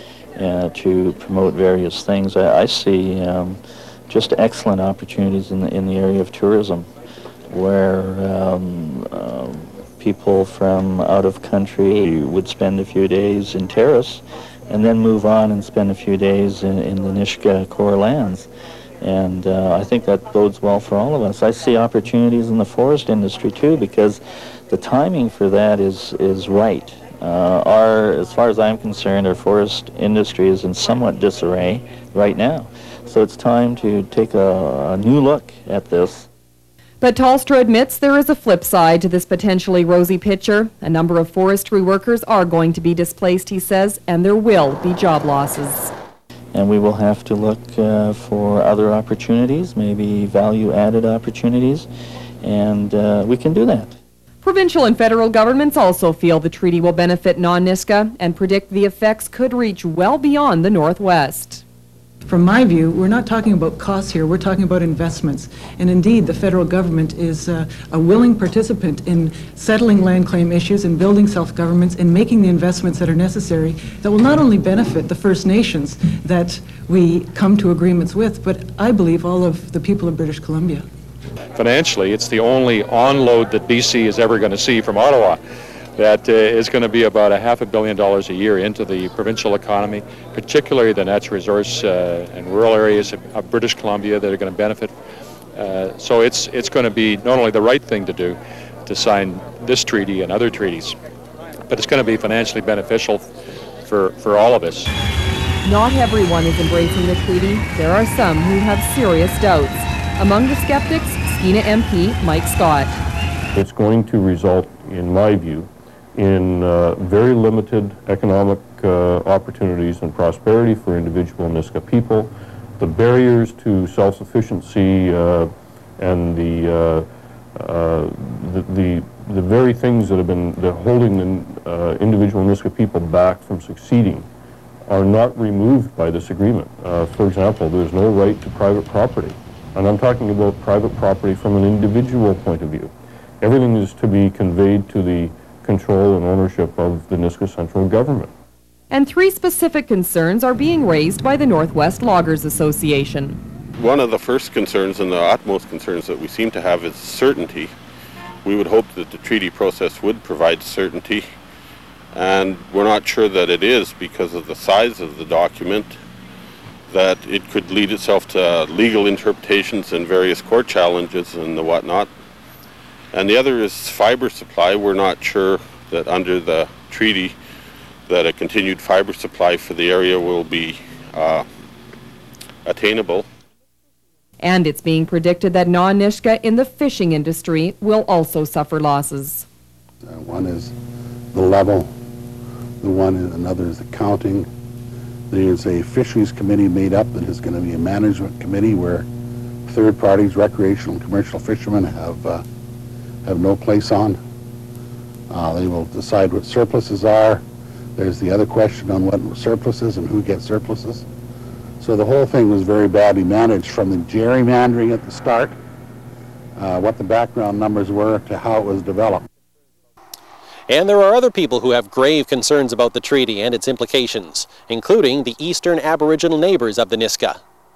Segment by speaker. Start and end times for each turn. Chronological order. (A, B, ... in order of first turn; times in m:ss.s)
0:00.4-0:06.9 A
0:07.5-0:18.5 A
0:19.0-0:36.3 A
0:37.0-0:45.9 B
0:46.5-0:51.9 A
0:52.4-0:54.0 A
0:54.4-1:01.6 B
1:02.3-1:20.9 C
1:21.6-1:25.4 D
1:26.0-1:35.0 D
1:35.5-1:41.0 D
1:41.7-1:43.3 D
1:43.8-1:45.0 D
1:45.6-1:53.0 B
1:53.5-2:14.3 E
2:14.9-2:28.3 E
2:28.9-2:33.4 B
2:33.8-2:37.7 F
2:38.4-2:41.3 F
2:42.1-2:46.0 F
2:46.9-2:52.1 F
2:53.1-2:57.4 F
2:58.1-3:01.5 F
3:02.6-3:03.3 F
3:04.4-3:09.5 B
3:10.0-3:10.8 G
3:11.3-3:11.9 G
3:12.8-3:14.5 G
3:15.3-3:19.1 G
3:19.7-3:22.4 G
3:23.2-3:24.2 G
3:25.3-3:27.4 G
3:28.0-3:31.1 G
3:31.8-3:35.6 G
3:36.6-3:39.2 G
3:40.7-3:47.4 H